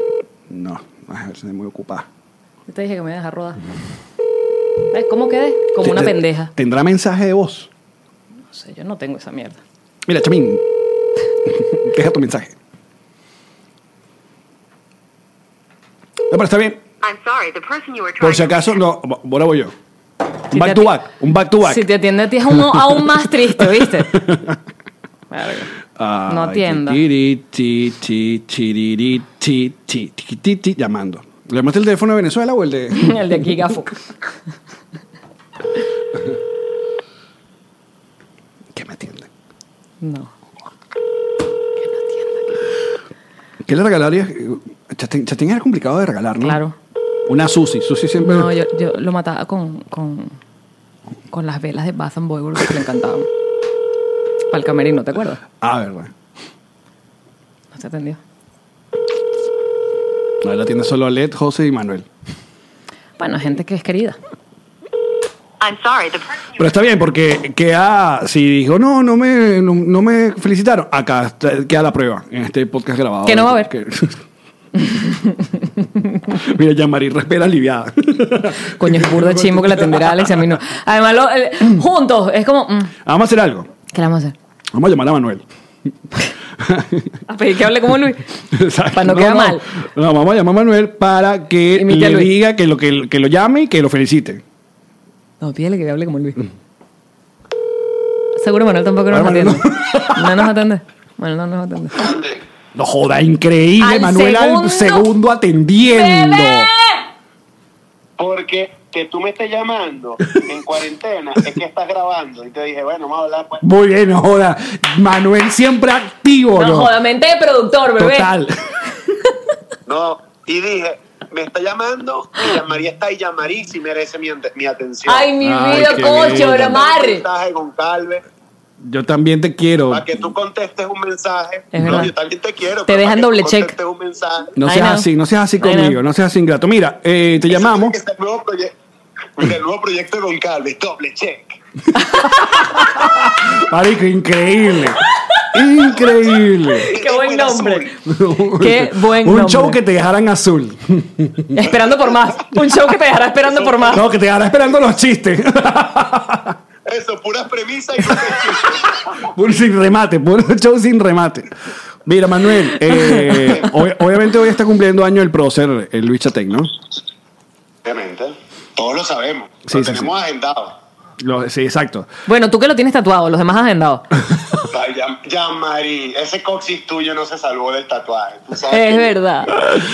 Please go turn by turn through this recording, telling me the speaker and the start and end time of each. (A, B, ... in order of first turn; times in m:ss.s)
0:00.5-0:02.1 A
0:02.7-0:03.6 B
0:04.9-0:06.5 B
0:05.8-0:07.7 A
0:08.5-0:09.6 B
0:10.1-0:10.6 A
0:11.5-0:12.5 A
0:16.3-0:16.8 A
0:17.0-0:18.8 C
0:18.2-0:19.7 A
0:20.5-0:21.9 A
0:20.5-0:21.0 B
0:21.6-0:24.2 B
0:23.7-0:24.6 A
0:25.3-0:25.7 B
0:26.0-0:33.3 A
0:26.3-0:27.0 B
0:32.9-0:34.0 B
0:38.8-0:39.3 A
0:40.0-0:40.3 B
0:41.8-0:42.7 B
0:43.7-0:46.6 A
0:46.4-0:46.8 B
0:47.3-0:48.5 A
0:48.2-0:50.4 B
0:51.3-0:53.3 B
0:54.5-0:55.4 B
0:55.6-0:56.1 A
0:57.7-0:58.2 B
1:00.4-1:02.1 A
1:03.2-1:04.2 B
1:05.6-1:06.5 C
1:06.6-1:14.2 A
1:13.2-1:13.7 B
1:14.8-1:15.5 B
1:16.3-1:20.6 A
1:18.8-1:22.9 B
1:23.0-1:23.7 A
1:23.9-1:24.4 B
1:24.7-1:25.4 A
1:26.6-1:27.2 A
1:27.3-1:28.2 B
1:28.5-1:34.4 A
1:28.9-1:29.7 B
1:31.7-1:32.3 B
1:35.4-1:36.4 B
1:38.4-1:42.1 B
1:39.1-1:40.5 A
1:42.0-1:42.4 D
1:42.8-1:46.7 A
1:43.8-1:45.1 B
1:45.8-1:47.0 B
1:48.2-1:53.6 D
1:53.6-1:56.9 A
1:56.6-1:58.3 B
1:58.0-1:58.6 A
1:59.9-2:08.2 D
2:05.0-2:07.2 B
2:05.4-2:06.8 A
2:08.8-2:10.2 A
2:09.9-2:14.6 D
2:11.7-2:12.1 B
2:12.9-2:13.8 B
2:14.6-2:18.0 A
2:14.6-2:15.1 B
2:15.6-2:16.0 B
2:17.5-2:18.7 D
2:19.4-2:21.6 D
2:22.1-2:25.0 A
2:25.5-2:26.9 A
2:26.9-2:27.9 D
2:26.9-2:27.9 B
2:28.1-2:31.6 A
2:28.5-2:29.8 B
2:31.5-2:34.0 B
2:33.5-2:34.0 D
2:33.9-2:36.6 A
2:36.9-2:39.3 D
2:39.2-2:41.5 A
2:42.1-2:46.7 A
2:42.9-2:43.6 B
2:47.8-2:50.8 D
2:49.7-2:50.1 A
2:51.2-2:52.1 A
2:52.3-2:54.0 B
2:54.7-2:59.1 D
2:58.7-2:59.5 B